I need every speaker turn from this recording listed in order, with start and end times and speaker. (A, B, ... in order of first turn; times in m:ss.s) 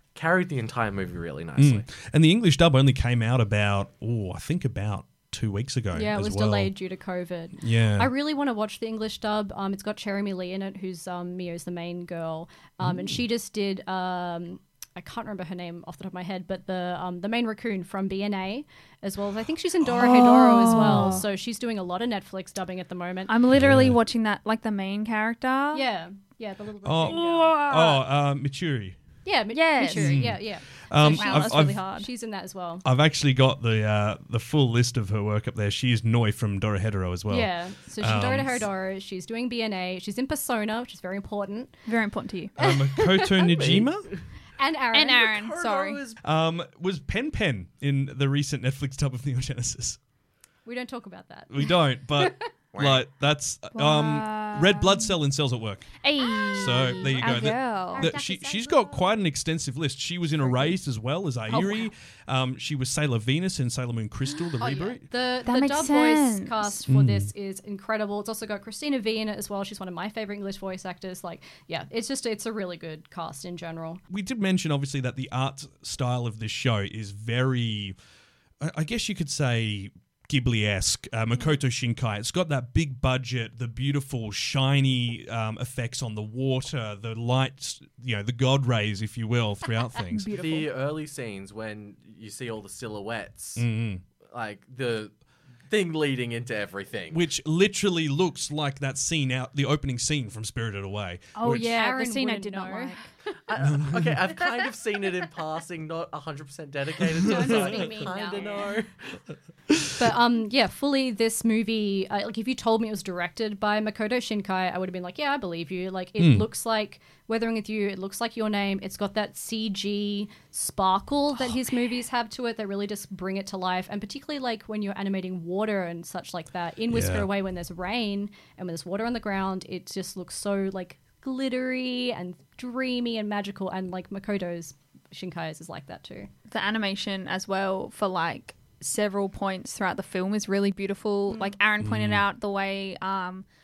0:00.1-0:01.8 A
0:01.6-0:06.7 B
0:05.9-0:23.3 C
0:07.6-0:08.1 B
0:19.9-0:21.2 D
0:23.3-0:25.8 D
0:23.5-0:24.0 B
0:25.7-0:27.7 C
0:26.8-0:29.0 B
0:27.1-0:28.0 D
0:29.2-0:32.8 C
0:29.5-0:30.4 D
0:29.9-0:31.8 B
0:31.0-0:32.1 D
0:32.8-0:38.6 B
0:37.3-0:41.8 C
0:41.8-0:42.5 D
0:42.6-0:44.1 B
0:42.6-0:43.6 C
0:43.5-0:44.2 A
0:44.6-0:45.5 C
0:44.9-0:46.0 D
0:45.2-0:46.2 A
0:46.2-0:50.0 B
0:50.6-0:52.3 C
0:51.5-0:55.9 B
0:52.7-0:53.0 A
0:53.7-0:55.2 D
0:56.0-0:58.1 D
0:56.4-0:59.2 C
0:56.5-1:05.0 B
1:00.4-1:00.7 C
1:01.5-1:01.9 D
1:04.6-1:14.0 C
1:05.4-1:06.8 D
1:06.9-1:07.3 B
1:14.1-1:18.0 B
1:18.6-1:30.3 B
1:30.1-1:30.7 D
1:30.3-1:33.6 A
1:33.6-1:34.0 B
1:34.3-1:35.1 A
1:35.7-1:37.2 A
1:37.1-1:41.7 B
1:41.4-1:43.1 D
1:41.4-1:43.4 C
1:43.5-1:48.9 A
1:43.6-1:44.2 B
1:44.4-1:44.7 C
1:47.2-1:48.7 C
1:50.0-2:16.3 C
1:56.2-1:56.5 B
2:06.9-2:07.3 B
2:16.5-2:23.4 D
2:21.3-2:21.6 C
2:21.8-2:22.2 B